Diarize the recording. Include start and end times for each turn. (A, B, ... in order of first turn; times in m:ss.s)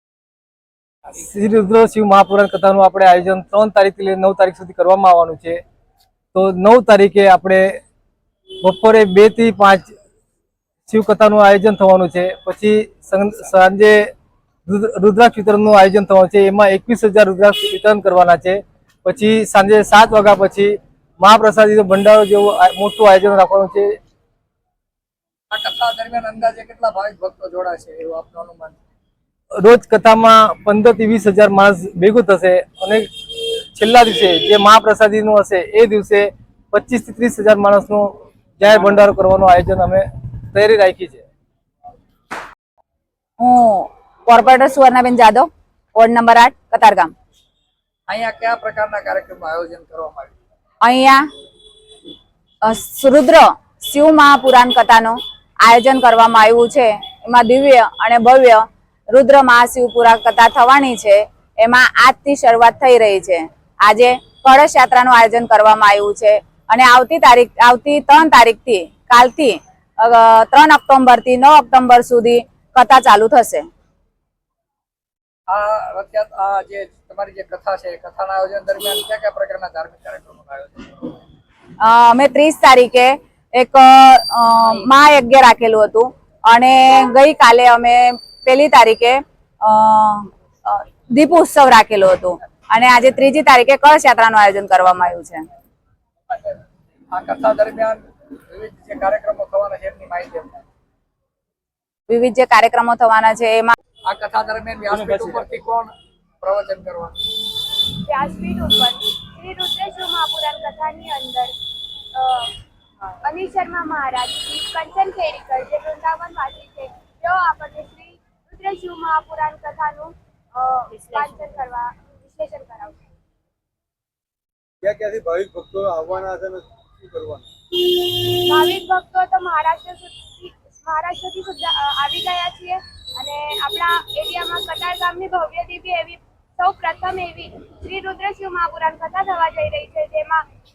0:01.1-0:05.6 A
0:06.3-0:07.8 A
0:08.6-0:09.9 A
0:10.9-0:14.1 A
0:14.6-0:24.0 A
0:25.5-0:28.8 B
0:29.6-0:41.2 A
0:43.4-0:47.1 C
0:48.1-0:50.3 B
0:50.8-0:51.2 C
0:52.6-1:13.6 C
1:15.5-1:21.1 B
1:21.8-1:35.4 C
1:36.3-1:36.6 B
1:37.1-1:40.6 B
1:42.1-1:43.7 C
1:44.1-1:47.2 B
1:47.9-1:51.5 D
1:52.1-1:52.5 D
1:53.2-2:03.0 D
2:04.8-2:07.5 E
2:08.2-2:20.4 D